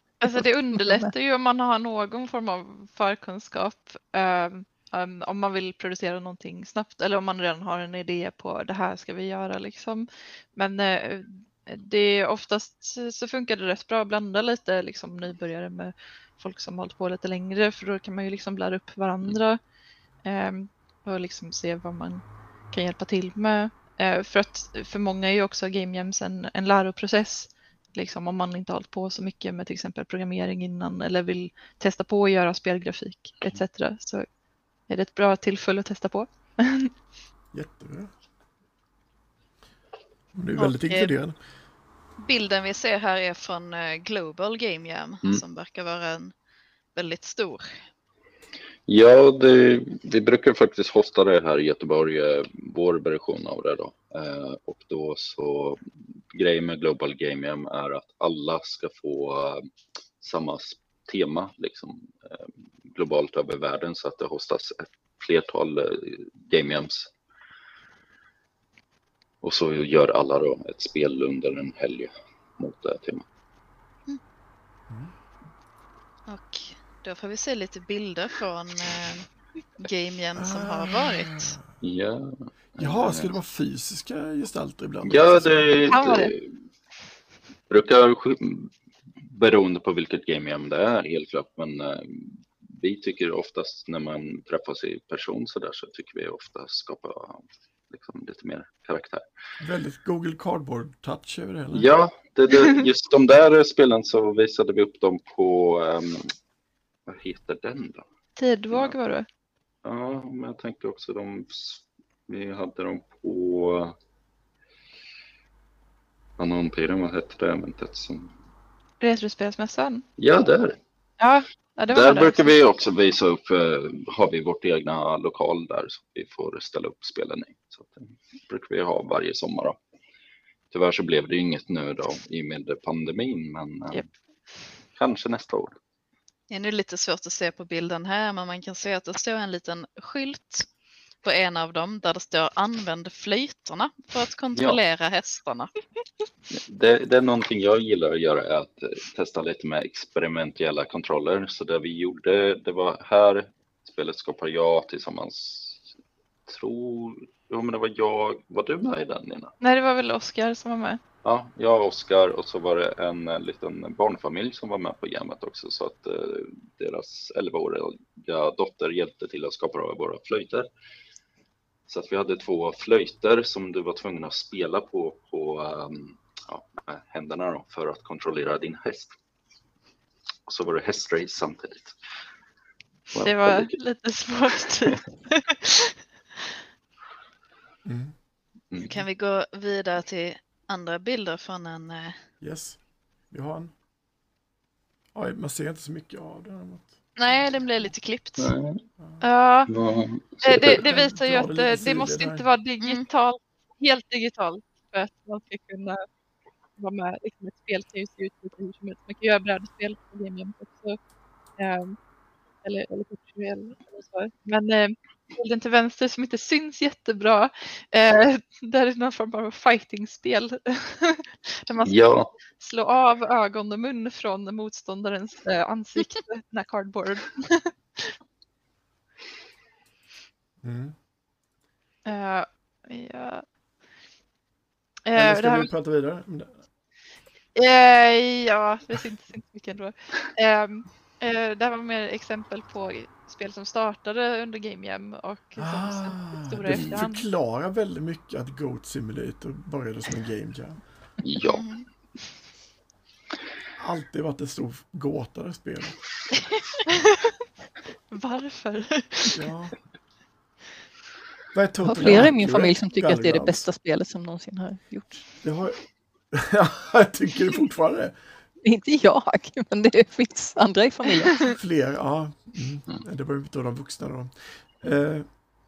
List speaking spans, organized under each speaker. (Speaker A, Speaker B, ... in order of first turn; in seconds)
Speaker A: 0.2-19.6, 20.2-34.3, 34.9-36.9, 85.9-86.3, 108.4-109.3, 119.0-120.0, 121.2-122.5, 159.6-161.0, 183.2-186.5, 199.2-199.7, 200.4-206.0, 206.8-211.0, 211.6-212.0, 212.6-221.9, 222.5-228.2, 232.1-233.4, 235.1-235.7, 237.6-247.2, 256.4-257.3, 258.1-259.4
Speaker B: 0.2-1.1, 261.8-265.3, 268.6-271.5
Speaker C: 37.5-38.1, 40.3-41.4, 80.4-81.6, 82.8-85.9, 99.6-101.9, 187.8-188.2, 192.4-193.7, 195.1-197.0, 200.6-202.5, 230.6-230.9, 235.2-236.6, 245.6-250.8, 253.8-256.0, 259.3-259.8, 261.5-263.7, 265.4-265.8, 266.3-268.1, 271.4-275.3
Speaker D: 40.6-41.1, 42.2-46.3, 47.0-47.7, 76.3-79.2, 79.8-81.5, 136.5-140.7, 141.2-145.7, 188.8-192.2, 197.2-198.5, 202.8-203.1, 251.4-251.8
Speaker E: 48.9-59.7, 60.2-67.1, 69.4-73.3, 81.8-83.3, 85.1-86.5, 87.7-88.7, 89.2-99.2, 101.7-106.3, 107.1-108.1, 109.8-114.0, 116.4-118.3, 120.2-120.8, 121.9-129.8, 130.7-134.1, 135.0-135.8, 146.5-155.8, 156.5-159.5, 161.2-170.7, 171.9-179.1, 180.5-181.9, 183.1-183.7, 188.7-189.0, 198.4-198.8, 199.7-200.8, 221.8-222.3, 246.7-247.1, 251.2-251.6